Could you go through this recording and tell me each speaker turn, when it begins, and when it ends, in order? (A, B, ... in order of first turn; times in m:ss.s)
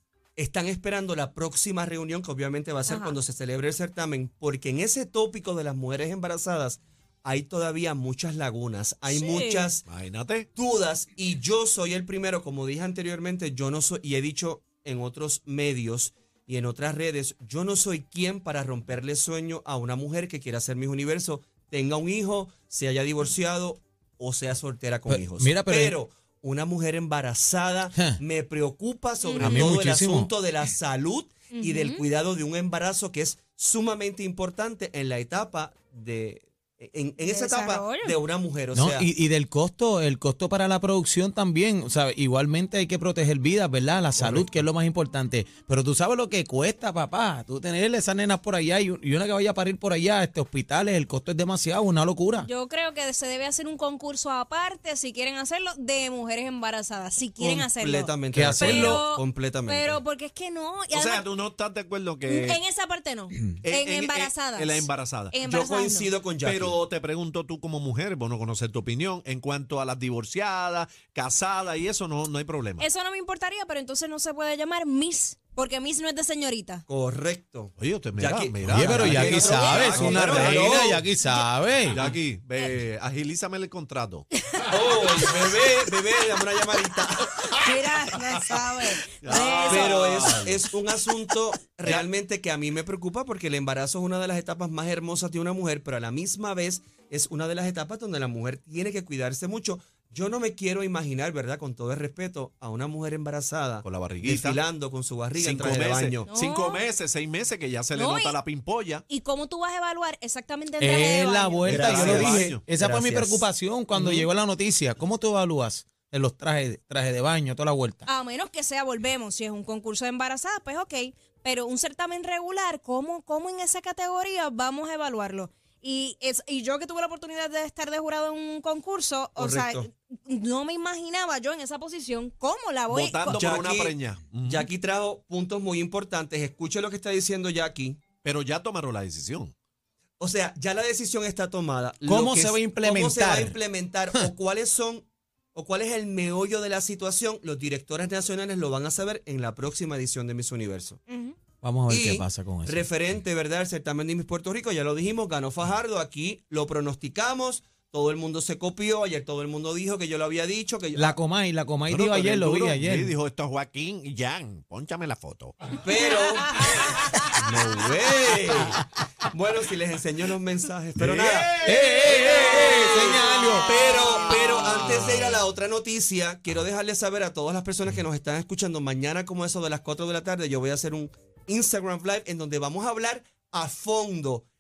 0:00.4-0:09.8 A
0:02.9-0:03.2 B
0:09.1-0:09.7 B
0:09.9-0:10.5 C
0:10.6-0:39.1 A
0:25.1-0:26.0 D
0:29.2-0:29.7 B
0:29.4-0:30.3 D
0:31.5-0:32.0 B
0:37.2-0:38.2 B
0:38.7-0:52.5 D
0:44.2-0:44.5 A
0:52.4-1:01.3 B
0:57.4-1:00.0 A
0:58.3-0:59.0 D
1:00.9-1:02.6 C
1:02.3-1:06.1 B
1:03.6-1:05.4 C
1:05.4-1:06.8 A
1:06.4-1:12.9 C
1:12.8-1:16.8 B
1:16.9-1:21.0 A
1:17.8-1:20.7 C
1:18.7-1:22.0 D
1:19.3-1:20.5 B
1:21.9-1:24.2 C
1:24.5-1:25.3 B
1:24.7-1:27.2 A
1:27.3-1:30.0 B
1:29.2-1:30.7 C
1:29.7-1:46.3 A
1:43.8-1:44.6 C
1:45.4-1:49.0 C
1:46.3-1:46.8 B
1:47.9-1:48.4 B
1:49.1-1:52.0 B
1:50.8-1:58.1 D
1:51.6-1:52.6 C
1:51.7-1:54.3 A
1:58.1-2:13.4 B
2:09.4-2:09.9 A
2:12.9-2:14.7 C
2:13.3-2:18.0 A
2:18.2-2:19.5 C
2:20.2-2:31.0 A
2:22.1-2:23.6 D
2:31.1-2:31.4 B
2:31.6-2:32.9 D
2:31.9-2:41.2 A
2:41.0-2:43.2 D
2:41.9-2:45.6 C
2:45.8-2:46.7 A
2:47.4-3:04.5 A
2:51.0-2:52.1 C
2:51.6-2:53.7 D